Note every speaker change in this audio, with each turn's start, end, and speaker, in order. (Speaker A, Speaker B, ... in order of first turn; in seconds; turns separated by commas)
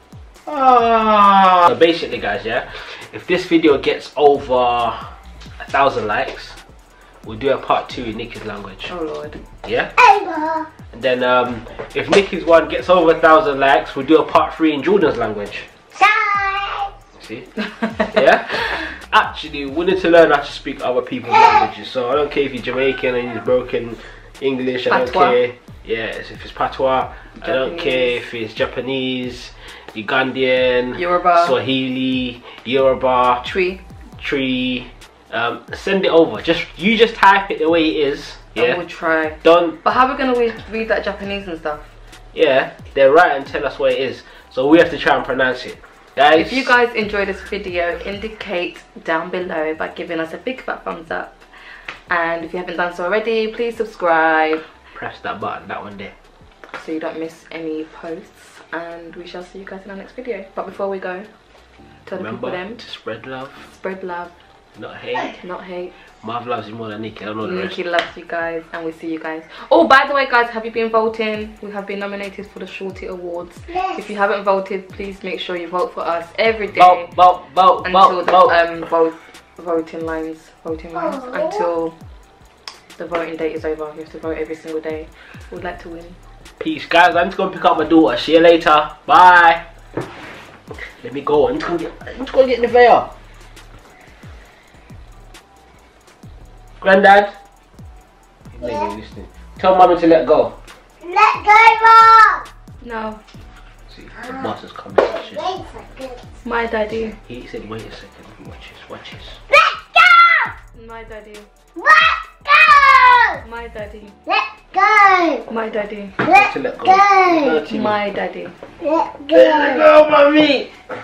Speaker A: 0.5-6.6, Speaker A: 7.2-8.9, Speaker B: 8.9-9.4, Speaker A: 9.6-9.9, Speaker C: 10.0-10.7, Speaker A: 10.9-15.7, Speaker C: 15.9-16.9, Speaker A: 17.2-33.4, Speaker B: 24.9-25.4, Speaker B: 27.4-28.2, Speaker B: 30.9-31.6, Speaker B: 33.4-33.8, Speaker A: 34.2-38.8, Speaker B: 38.5-41.9, Speaker A: 39.4-39.8, Speaker A: 42.3-46.7, Speaker B: 46.3-54.6, Speaker A: 54.9-56.1, Speaker B: 56.7-61.3, Speaker B: 62.1-62.8, Speaker A: 62.1-63.7, Speaker B: 63.7-64.3, Speaker A: 64.8-65.4, Speaker B: 65.3-65.9, Speaker A: 66.2-67.8, Speaker B: 67.4-77.1, Speaker C: 73.7-74.0, Speaker A: 76.7-78.6, Speaker B: 77.8-82.0, Speaker C: 81.1-81.5, Speaker B: 83.0-86.2, Speaker A: 86.6-89.7, Speaker A: 90.7-93.1, Speaker A: 96.8-97.3, Speaker A: 98.5-100.6, Speaker C: 98.6-98.9, Speaker C: 101.0-102.5, Speaker B: 102.8-103.2, Speaker A: 103.9-105.5, Speaker C: 105.2-106.2, Speaker B: 106.4-107.2, Speaker A: 107.2-109.4, Speaker C: 109.5-110.5, Speaker B: 110.8-111.5, Speaker C: 111.8-113.4, Speaker B: 113.4-114.2, Speaker C: 114.3-115.5, Speaker B: 115.5-116.2, Speaker C: 116.2-117.6, Speaker A: 116.2-118.0, Speaker B: 117.7-118.5, Speaker C: 118.8-119.9, Speaker A: 119.3-120.7